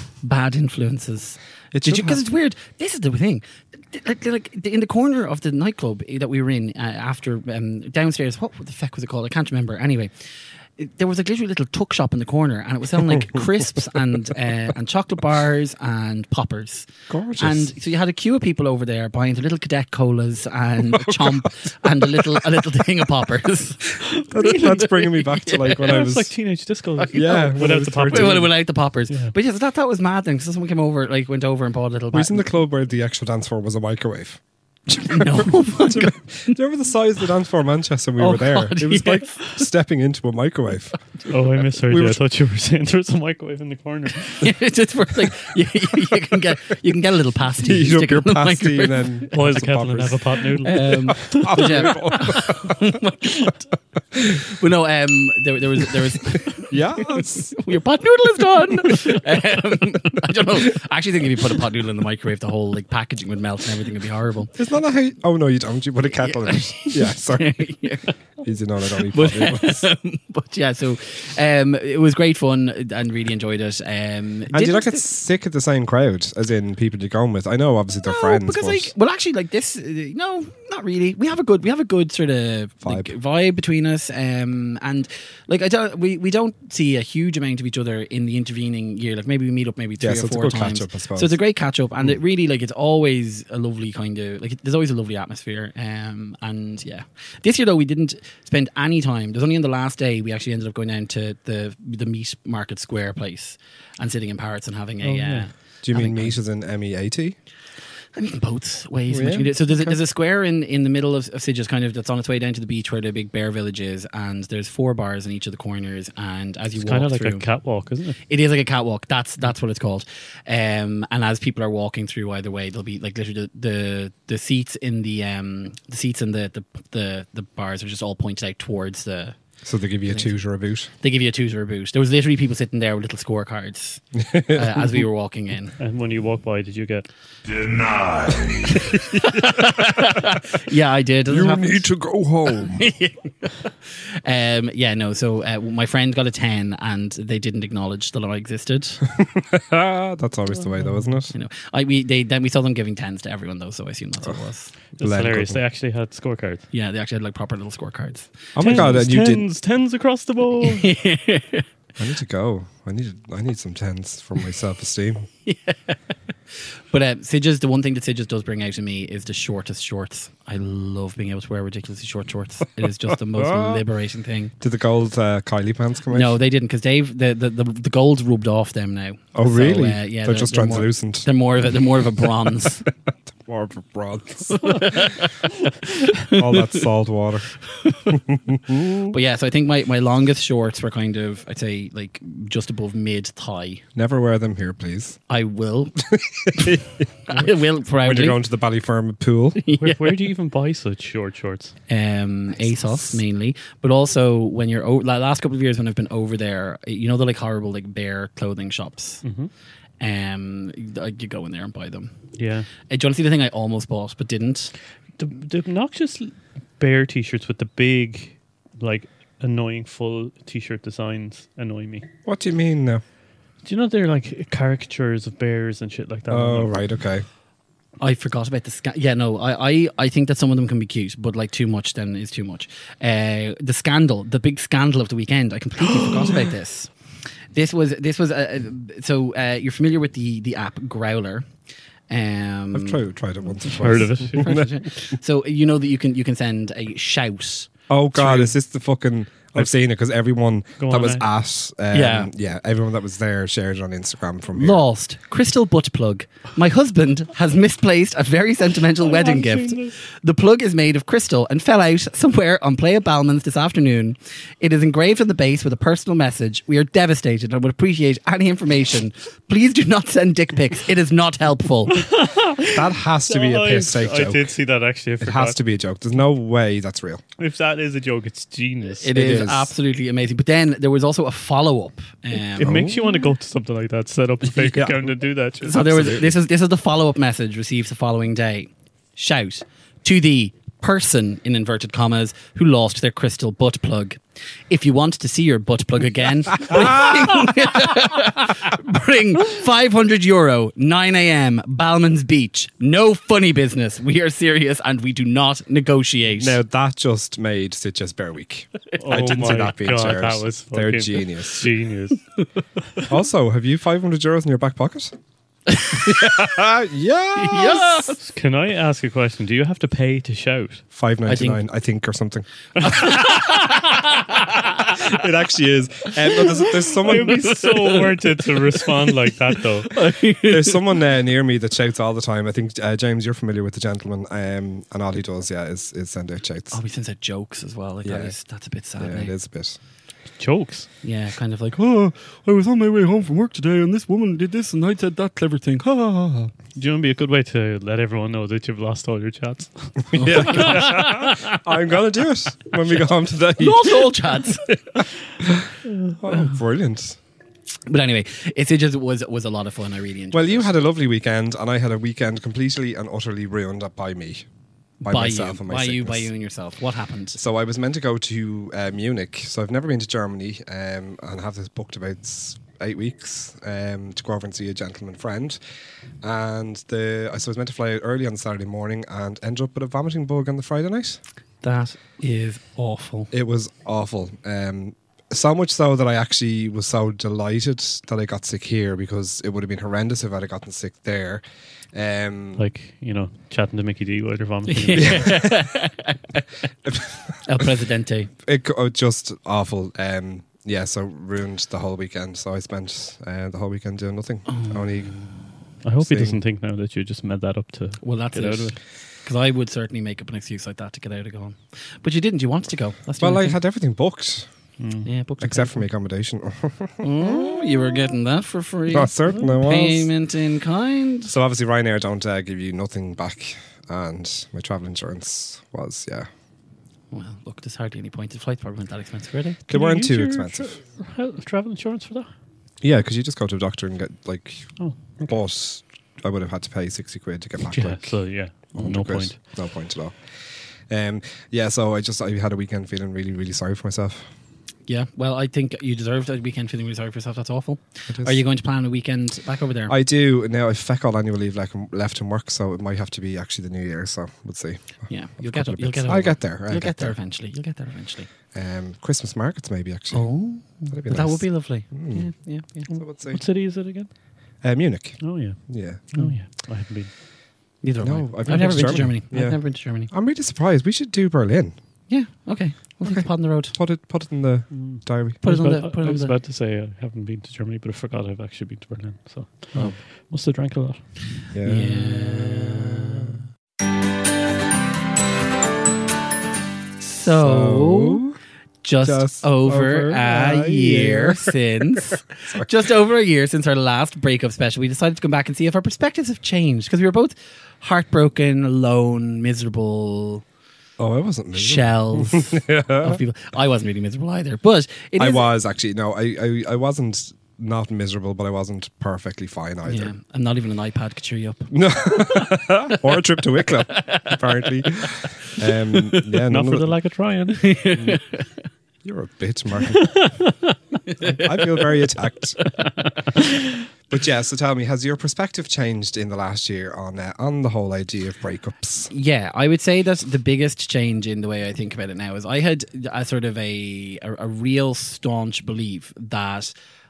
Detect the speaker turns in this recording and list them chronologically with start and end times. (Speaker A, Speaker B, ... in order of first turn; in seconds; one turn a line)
Speaker A: 0.2-16.9
Speaker B: 1.7-2.2
Speaker B: 17.1-17.7
Speaker A: 17.4-26.0
Speaker B: 20.9-22.4
Speaker B: 24.3-26.3
Speaker C: 25.7-28.5
Speaker A: 27.0-32.5
Speaker B: 27.1-28.5
Speaker C: 29.1-29.3
Speaker B: 32.1-34.4
Speaker A: 34.9-36.6
Speaker B: 35.0-41.0
Speaker A: 38.2-39.6
Speaker C: 41.3-44.5
Speaker B: 41.9-42.2
Speaker A: 44.4-49.1
Speaker B: 47.6-52.8
Speaker C: 49.3-51.7
Speaker A: 50.6-53.6
Speaker A: 54.1-64.5
Speaker B: 56.6-57.5
Speaker B: 58.8-59.1
Speaker B: 64.5-67.6
Speaker A: 66.2-68.1
Speaker B: 68.4-69.8
Speaker A: 68.9-75.0
Speaker B: 74.5-78.9
Speaker A: 78.0-106.4
Speaker B: 82.8-83.1
Speaker B: 90.0-91.3
Speaker C: 105.0-105.5
Speaker B: 105.8-107.4
Speaker A: 108.1-117.4
Speaker B: 109.1-110.0
Speaker C: 116.7-118.2
Speaker A: 118.3-129.4
Speaker B: 129.6-130.9
Speaker A: 130.1-130.3
Speaker A: 131.0-135.8
Speaker B: 134.2-134.8
Speaker C: 135.8-137.1
Speaker B: 138.8-139.5
Speaker A: 138.9-149.0
Speaker B: 141.3-142.8
Speaker B: 149.1-151.3
Speaker C: 150.8-151.1
Speaker A: 151.3-154.8
Speaker C: 155.0-156.6
Speaker B: 155.0-155.6
Speaker A: 156.7-158.9
Speaker B: 158.5-159.4
Speaker C: 158.6-160.9
Speaker A: 160.6-161.7
Speaker B: 162.0-165.3
Speaker A: 165.4-166.0
Speaker A: 166.5-174.5
Speaker B: 173.1-173.8
Speaker B: 174.6-176.4
Speaker A: 176.1-182.8
Speaker B: 179.3-181.3
Speaker B: 183.3-185.0
Speaker A: 184.5-186.8
Speaker B: 186.3-187.5
Speaker A: 187.7-188.2
Speaker B: 188.1-189.1
Speaker A: 189.1-193.8
Speaker B: 193.9-195.2
Speaker A: 195.3-198.4
Speaker B: 196.1-197.5
Speaker B: 198.0-199.6
Speaker A: 199.6-200.1
Speaker C: 199.8-201.7
Speaker A: 201.9-209.2
Speaker B: 202.6-203.2
Speaker C: 209.2-209.5
Speaker A: 210.0-212.1
Speaker C: 212.4-212.7
Speaker A: 212.9-214.7
Speaker C: 215.2-222.0
Speaker B: 222.2-223.0
Speaker C: 223.6-226.8
Speaker B: 226.3-227.2
Speaker A: 228.0-236.9
Speaker A: 237.5-241.4
Speaker A: 242.1-243.0
Speaker B: 242.7-244.7
Speaker A: 243.7-247.7
Speaker C: 243.8-244.6
Speaker B: 247.9-254.8
Speaker C: 248.2-248.5
Speaker C: 250.8-251.2
Speaker A: 251.9-252.3
Speaker A: 254.5-272.1
Speaker C: 259.0-260.0
Speaker C: 271.9-275.6
Speaker B: 272.7-274.5
Speaker B: 275.2-277.2
Speaker C: 277.4-279.1
Speaker A: 279.0-282.9
Speaker B: 279.1-279.7
Speaker C: 282.6-285.8
Speaker B: 282.6-283.2
Speaker B: 284.5-285.0
Speaker B: 285.6-286.3
Speaker A: 285.7-306.6
Speaker B: 296.7-297.2
Speaker B: 306.4-311.7
Speaker C: 309.0-312.2
Speaker B: 313.1-315.1
Speaker A: 315.7-316.4
Speaker B: 315.9-318.1
Speaker A: 317.4-318.2
Speaker C: 318.2-320.8
Speaker B: 320.9-323.2
Speaker A: 321.2-321.6
Speaker C: 322.8-324.1
Speaker A: 322.8-323.8
Speaker B: 325.0-327.8
Speaker C: 326.9-330.0
Speaker A: 327.1-328.2
Speaker A: 329.9-330.8
Speaker B: 330.5-336.8
Speaker A: 336.7-339.3
Speaker B: 338.0-338.3
Speaker B: 339.0-339.8
Speaker C: 340.4-340.9
Speaker A: 341.0-346.5
Speaker C: 346.7-351.4
Speaker B: 350.1-354.1
Speaker A: 350.1-351.0
Speaker A: 353.6-354.7
Speaker B: 354.9-357.2
Speaker C: 355.9-356.4
Speaker A: 357.9-360.7
Speaker B: 360.3-364.5
Speaker A: 365.0-367.4
Speaker B: 365.0-366.3
Speaker B: 367.4-375.6
Speaker B: 376.2-381.2
Speaker A: 381.6-383.3
Speaker B: 383.3-391.4
Speaker B: 391.9-392.6
Speaker C: 392.6-395.4
Speaker A: 394.7-396.4
Speaker B: 395.0-395.6
Speaker B: 396.9-397.6
Speaker A: 397.4-398.3
Speaker B: 398.4-405.1
Speaker A: 404.5-405.5
Speaker C: 405.8-408.8
Speaker B: 406.0-406.4
Speaker A: 408.0-413.6
Speaker B: 413.2-414.5
Speaker C: 414.8-415.1
Speaker A: 415.0-415.8
Speaker B: 415.4-417.7
Speaker A: 417.0-421.3
Speaker B: 418.9-420.1
Speaker B: 421.3-426.3
Speaker A: 427.1-429.6
Speaker B: 429.7-430.7
Speaker C: 429.7-432.3
Speaker B: 432.8-438.2
Speaker C: 434.8-435.3
Speaker C: 437.7-439.4
Speaker B: 438.7-440.2
Speaker B: 440.9-444.2
Speaker A: 444.9-449.9
Speaker B: 448.1-448.4
Speaker B: 449.9-457.2
Speaker A: 455.1-458.3
Speaker B: 458.5-460.3
Speaker A: 460.1-462.9
Speaker B: 460.9-462.3
Speaker B: 462.9-463.4
Speaker C: 462.9-464.1
Speaker B: 464.6-466.1
Speaker C: 465.2-467.1
Speaker A: 467.8-470.1
Speaker B: 468.0-471.7
Speaker C: 468.5-469.1
Speaker A: 472.1-473.7
Speaker B: 473.0-475.4
Speaker C: 474.7-481.3
Speaker A: 475.4-476.3
Speaker B: 481.5-483.4
Speaker A: 481.6-483.4
Speaker A: 487.0-488.2
Speaker B: 487.4-488.4
Speaker A: 488.8-500.4
Speaker B: 489.0-491.5
Speaker B: 501.0-503.2
Speaker A: 501.5-505.5
Speaker B: 505.2-510.1
Speaker A: 509.9-512.5
Speaker B: 511.7-516.9
Speaker A: 513.9-516.2
Speaker C: 516.5-517.9
Speaker A: 517.6-518.5
Speaker B: 519.0-520.3
Speaker C: 520.0-520.5
Speaker A: 521.2-521.4
Speaker B: 521.2-522.7
Speaker B: 524.1-529.1
Speaker A: 529.1-536.7